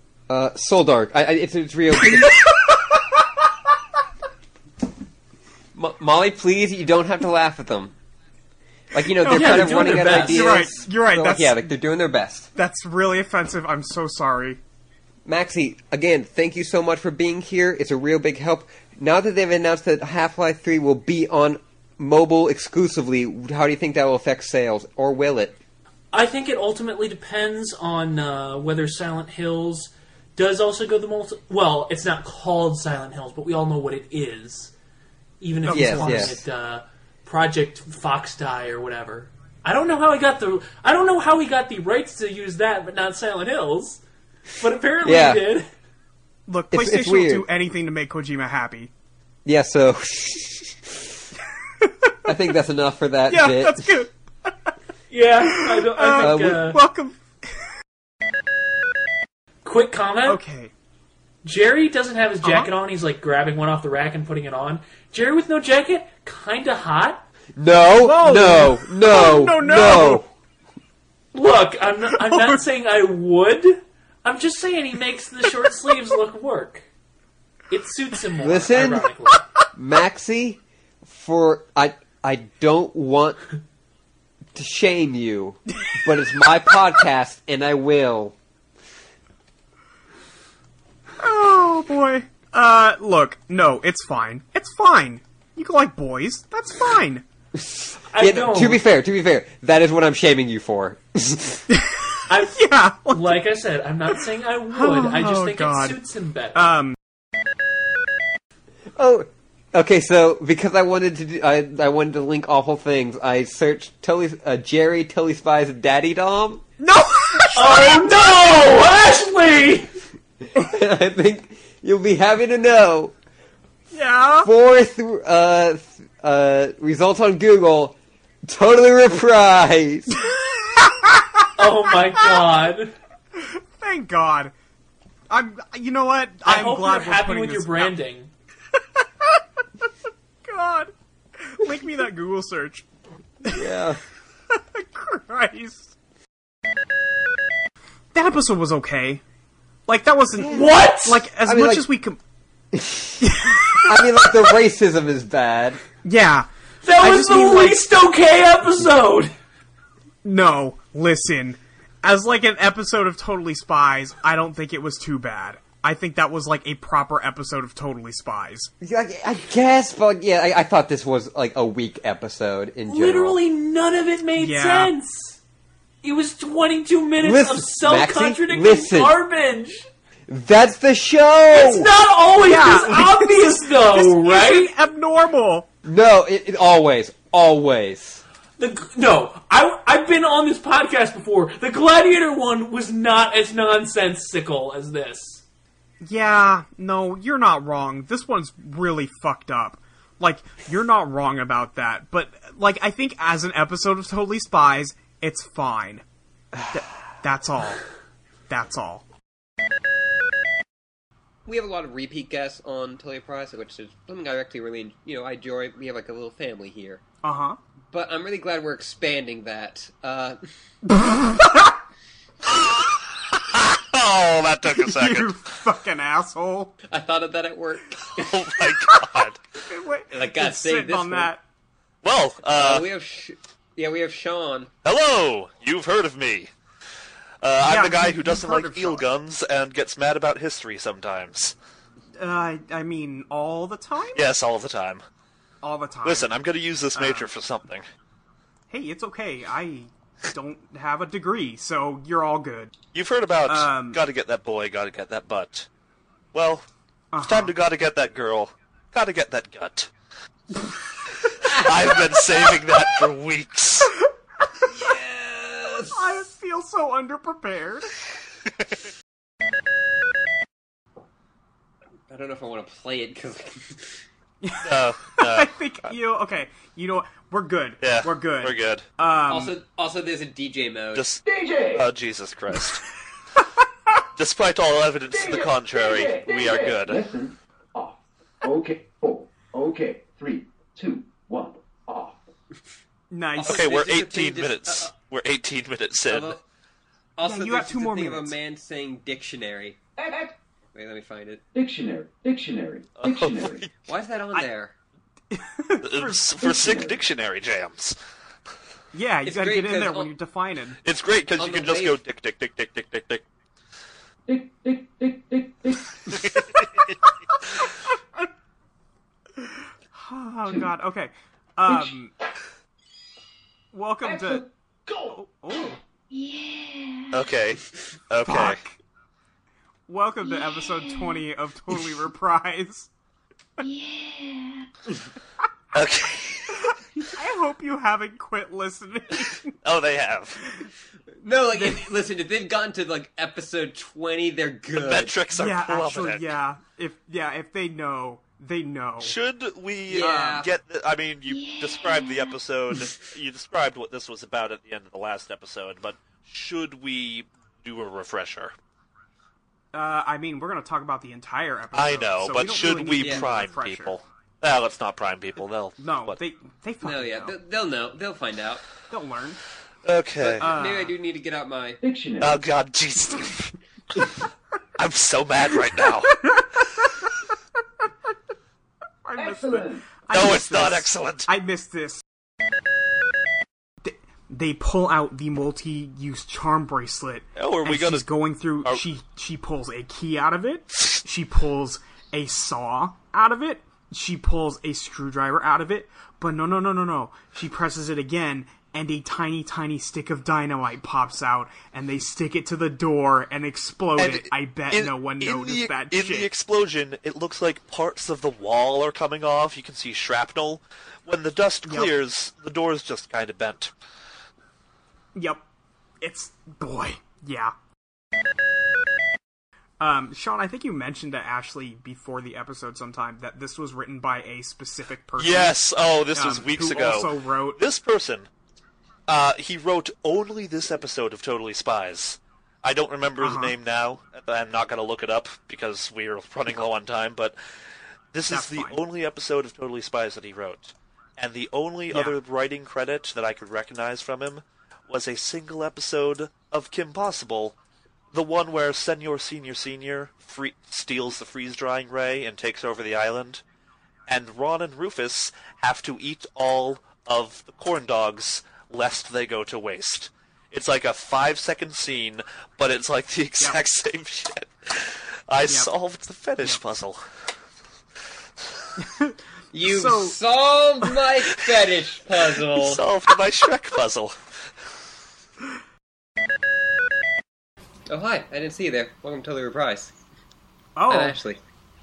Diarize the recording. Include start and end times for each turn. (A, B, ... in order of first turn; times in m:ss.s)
0:00.3-0:02.4 A
0:05.7-0:08.0 A
0:08.9-0:12.5 A
0:09.2-0:11.7 B
0:09.2-0:10.6 C
0:12.5-0:14.6 B
0:15.2-0:25.6 A
0:26.1-0:34.7 C
0:35.4-0:44.0 C
0:35.7-0:36.3 B
0:35.7-0:36.4 A
0:44.6-0:45.7 C
0:45.0-0:45.4 A
0:46.5-0:48.9 B
0:46.7-0:47.5 A
0:49.4-0:50.9 A
0:51.8-0:52.4 B
0:52.2-0:53.9 A
0:53.3-0:54.7 B
0:55.1-0:56.8 C
0:55.4-0:57.5 B
0:56.2-0:56.6 A
0:59.6-1:00.4 C
1:00.2-1:00.7 B
1:01.4-1:07.2 C
1:02.4-1:02.7 B
1:07.6-1:10.3 A
1:08.0-1:10.2 B
1:11.3-1:16.8 C
1:12.1-1:12.6 B
1:17.7-1:19.4 C
1:18.4-1:19.1 A
1:19.8-1:23.4 A
1:24.5-1:28.4 A
1:31.2-1:37.2 B
1:37.6-1:41.6 A
1:38.1-1:38.8 C
1:41.7-1:43.4 B
1:42.3-1:46.7 C
1:44.1-1:46.0 B
1:46.5-1:47.0 B
1:48.9-1:56.6 A
1:56.8-1:58.1 B
1:57.5-1:59.9 C
2:00.6-2:03.1 A
2:03.9-2:04.5 B
2:04.4-2:10.1 A
2:10.7-2:11.5 B
2:11.6-2:12.9 C
2:12.2-2:12.5 B
2:13.3-2:14.5 B
2:15.3-2:17.9 B
2:16.4-2:18.3 C
2:20.4-2:22.8 B
2:23.4-2:23.8 B
2:23.5-2:24.0 A
2:24.5-2:25.9 B
2:28.1-2:29.2 B
2:29.9-2:32.2 B
2:30.4-2:30.7 A
2:30.5-2:31.2 C
2:31.4-2:31.8 A
2:32.7-2:33.2 A
2:33.2-2:34.5 B
2:33.8-2:35.8 A
2:36.0-2:36.5 B
2:36.8-2:39.3 C
2:37.0-2:37.8 B
2:40.2-2:48.7 B
2:48.8-2:53.4 A
2:52.9-2:55.4 C
2:54.4-2:54.9 B
2:56.0-2:59.9 C
2:57.2-2:59.1 A
3:00.3-3:01.9 A
3:01.5-3:04.8 C
3:02.4-3:05.7 B
3:05.8-3:08.2 A
3:08.6-3:15.4 C
3:16.0-3:26.0 B
3:26.7-3:27.8 B
3:28.5-3:29.0 B
3:31.4-3:37.0 A
3:37.2-3:37.6 B
3:37.9-3:40.4 A
3:40.9-3:41.6 B
3:42.5-3:45.4 D
3:44.7-3:46.8 B
3:46.9-3:48.3 A
3:48.2-3:49.4 D
3:48.7-3:51.4 B
3:50.1-3:51.3 A
3:52.0-3:52.8 D
3:52.5-3:54.7 A
3:54.8-3:56.5 D
3:57.4-4:01.5 D
3:57.6-3:59.1 B
4:02.2-4:04.3 B
4:04.1-4:05.0 D
4:05.6-4:06.3 B
4:06.0-4:07.8 D
4:06.9-4:07.3 B
4:08.7-4:12.7 B
4:12.9-4:15.7 D
4:13.4-4:14.0 B
4:16.3-4:16.6 D
4:17.1-4:17.6 B
4:17.2-4:19.9 D
4:21.5-4:23.9 D
4:24.7-4:26.1 A
4:25.9-4:27.9 B
4:32.1-4:34.0 A
4:34.4-4:39.5 B
4:34.6-4:35.6 D
4:37.8-4:38.8 D
4:39.3-4:41.1 A
4:40.9-4:42.8 D
4:41.2-4:41.9 E
4:44.2-4:47.1 D
4:45.1-4:52.3 E
4:53.1-4:53.8 B
4:53.4-4:54.9 A
4:53.5-4:56.4 D
4:56.1-4:56.4 A
4:57.2-4:59.8 A
4:57.2-4:58.3 B
5:00.0-5:00.4 E
5:00.7-5:01.4 A
5:01.5-5:03.6 E
5:03.0-5:03.7 D
5:03.8-5:04.7 A
5:05.3-5:06.6 B
5:05.8-5:08.0 D
5:06.6-5:07.0 E
5:08.9-5:10.8 B
5:09.2-5:10.1 A
5:10.8-5:13.2 D
5:11.4-5:12.0 A
5:14.3-5:15.9 E
5:16.1-5:16.9 D
5:19.9-5:22.1 B
5:23.7-5:24.4 B
5:24.0-5:25.1 E
5:25.1-5:25.8 B
5:26.1-5:26.8 F
5:26.2-5:26.4 E
5:27.1-5:28.6 D
5:28.2-5:28.8 B
5:29.9-5:32.9 B
5:33.7-5:34.3 F
5:35.7-5:36.6 D
5:36.7-5:39.5 B
5:39.6-5:40.4 D
5:41.2-5:45.2 A
5:41.5-5:41.9 B
5:44.7-5:46.3 D
5:45.3-5:49.2 B
5:49.0-5:58.5 D
5:49.9-5:50.4 A
5:49.9-5:50.4 B
5:51.3-5:51.9 F
5:59.7-6:04.0 B
6:01.7-6:06.2 D
6:03.0-6:03.3 A
6:05.8-6:07.3 B
6:06.8-6:08.6 A
6:08.9-6:09.4 B
6:09.8-6:10.4 D
6:10.2-6:11.8 A
6:10.3-6:10.9 B
6:11.8-6:12.4 E
6:12.2-6:13.5 D
6:14.8-6:16.2 D
6:19.0-6:22.0 B
6:19.2-6:20.0 E
6:20.1-6:21.3 D
6:23.8-6:46.3 B
6:27.4-6:28.1 D
6:44.0-6:53.7 D
6:51.6-6:51.9 B
6:55.1-6:55.4 B
6:56.0-6:57.5 B
6:59.8-7:05.6 B
7:05.2-7:08.3 D
7:06.1-7:07.6 B
7:09.1-7:17.4 D
7:13.2-7:13.5 B
7:18.1-7:27.6 D
7:18.3-7:18.8 B
7:21.9-7:22.2 B
7:28.1-7:33.4 D
7:34.1-7:47.0 D
7:45.4-7:45.7 B
7:48.8-7:50.2 B
7:49.5-7:52.8 A
7:52.5-7:54.1 D
7:57.9-7:59.9 A
8:00.8-8:01.2 B
8:00.9-8:01.4 A